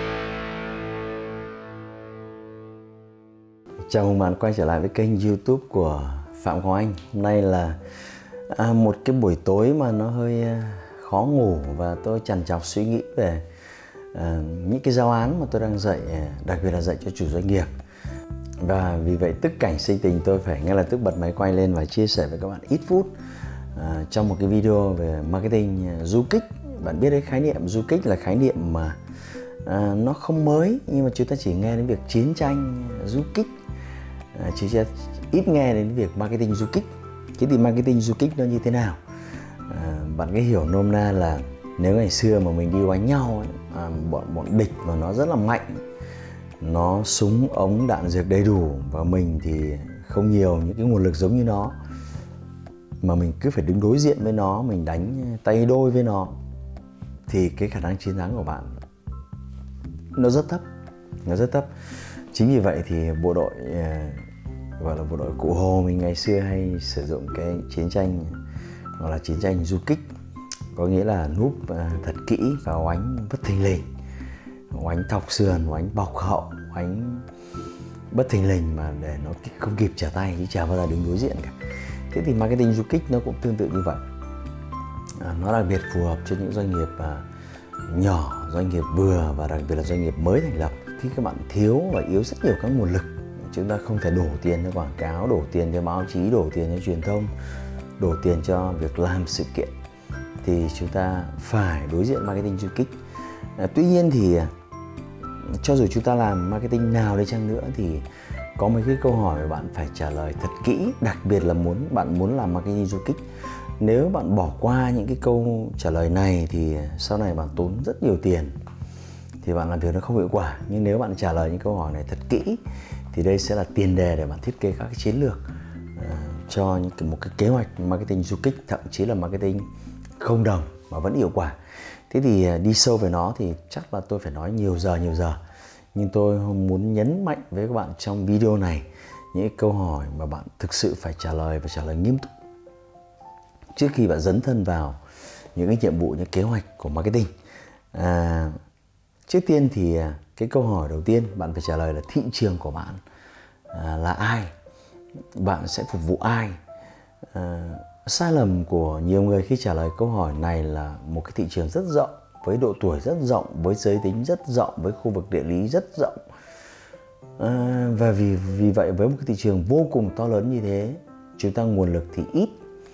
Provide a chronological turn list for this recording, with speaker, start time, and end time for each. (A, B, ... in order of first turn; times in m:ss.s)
0:03.9-0:07.8 A
0:08.5-0:13.4 A
0:14.1-0:17.7 A
0:18.6-0:23.1 A
0:23.7-0:29.0 A
0:29.6-0:33.5 A
0:34.3-0:39.0 A
0:39.7-0:45.8 A
0:46.6-0:51.8 A
0:53.0-0:56.4 A
0:57.3-0:58.7 A
1:00.2-1:00.6 A
1:01.2-1:01.7 A
1:02.3-1:04.2 A
1:04.8-1:08.4 A
1:09.0-1:10.1 A
1:10.7-1:13.9 A
1:14.7-1:17.2 A
1:18.1-1:21.6 A
1:22.1-1:24.0 A
1:25.2-1:27.2 A
1:27.9-1:37.3 A
1:38.0-1:39.7 A
1:40.4-1:43.0 A
1:43.6-1:44.5 A
1:45.4-1:53.2 A
1:53.8-1:58.5 A
1:59.4-2:09.7 A
2:10.2-2:11.6 A
2:12.1-2:15.4 A
2:15.9-2:22.3 A
2:23.7-2:25.0 A
2:25.5-2:27.3 A
2:27.9-2:28.6 A
2:29.2-2:33.0 A
2:33.7-2:34.5 A
2:35.3-2:36.6 A
2:37.3-2:46.2 A
2:47.4-2:52.6 A